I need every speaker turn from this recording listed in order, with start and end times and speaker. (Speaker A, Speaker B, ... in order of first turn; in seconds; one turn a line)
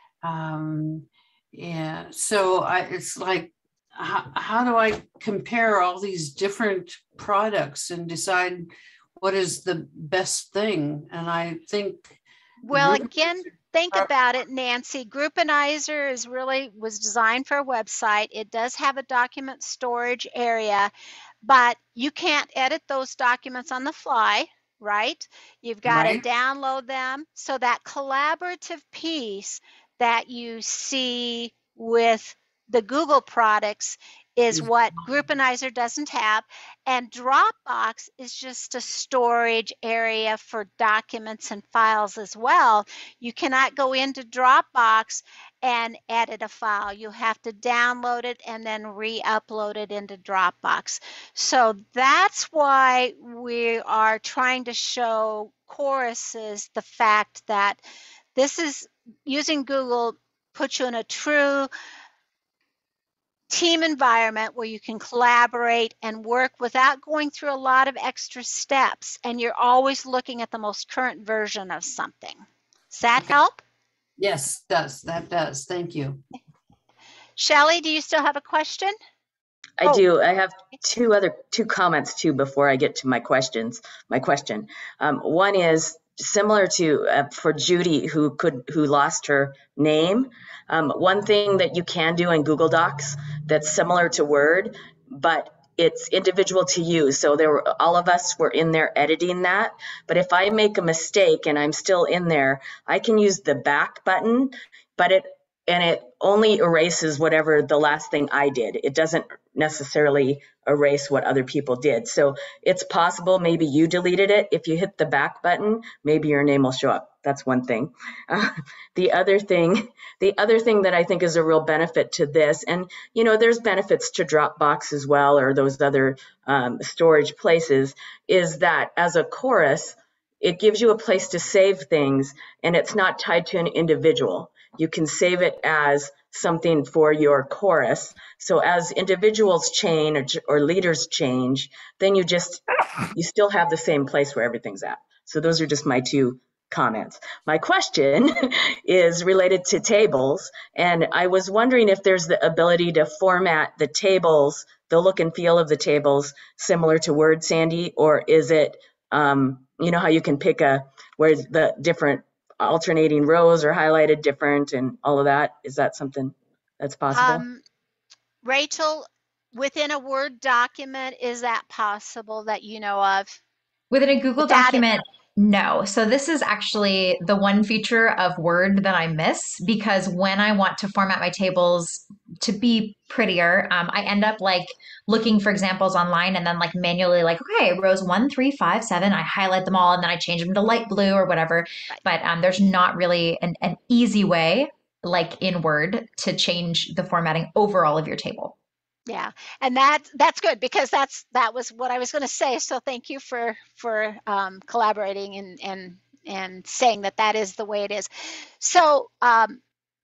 Speaker A: 0.2-13.2
Speaker B: 12.6-20.9
Speaker B: 21.4-57.8
Speaker A: 25.9-26.2
Speaker B: 58.4-61.7
Speaker B: 63.5-73.6
Speaker A: 74.2-76.2
Speaker B: 77.4-78.9
Speaker C: 79.8-142.6
Speaker C: 143.1-167.4
Speaker B: 167.1-167.6
Speaker B: 168.4-173.4
Speaker D: 173.9-198.6
Speaker B: 174.4-175.0
Speaker B: 199.1-209.6